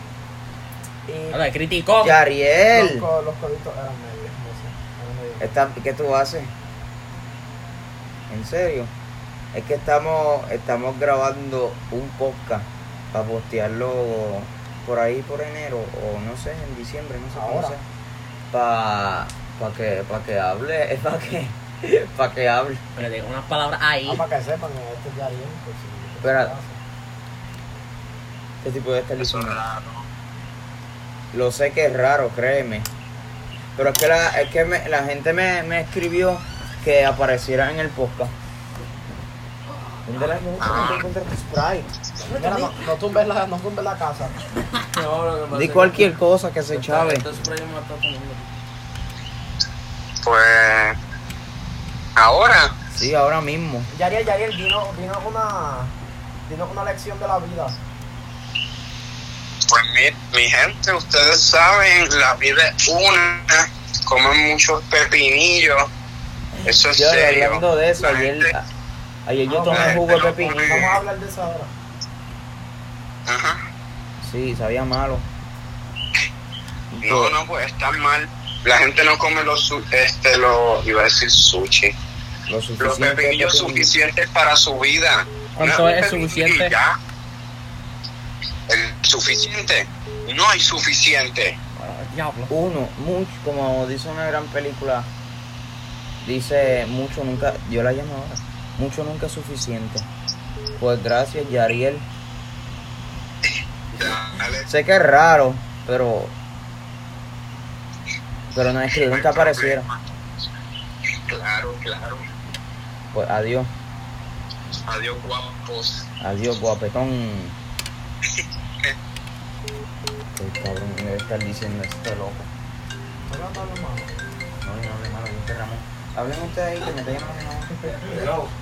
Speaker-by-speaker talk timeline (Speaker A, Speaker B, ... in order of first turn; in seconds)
Speaker A: 1.1-1.4, 2.7-5.5, 17.3-17.7, 24.1-26.8, 42.3-44.4, 53.9-55.9, 56.5-57.8, 69.5-70.0, 70.6-71.7, 123.3-124.1
Speaker B: 1.3-2.2, 22.9-24.2, 85.6-86.7, 91.8-92.5
Speaker C: 2.0-3.1, 5.4-6.5, 8.3-8.9, 9.5-17.8, 18.5-22.8, 26.2-26.5, 28.6-29.6, 31.3-32.9, 33.8-38.3, 40.0-41.9, 45.5-47.2, 52.9-53.9, 66.9-68.6, 69.2-70.9, 74.2-75.2, 76.9-77.3, 82.5-83.9, 92.5-95.1, 96.2-100.1, 100.8-102.0, 104.7-106.3, 108.5-109.8, 113.1-113.7, 116.2-117.5, 120.3-122.5, 124.6-128.5
Speaker D: 29.2-30.0, 40.6-41.0, 50.2-50.9, 52.1-52.7, 59.7-65.8, 66.6-68.5, 69.7-71.0, 73.3-73.6, 77.0-81.9, 82.8-87.0, 88.7-91.5, 103.9-104.7, 108.9-110.0, 111.3-112.2, 114.9-116.1, 118.2-118.9
Speaker E: 44.9-46.1, 46.7-48.5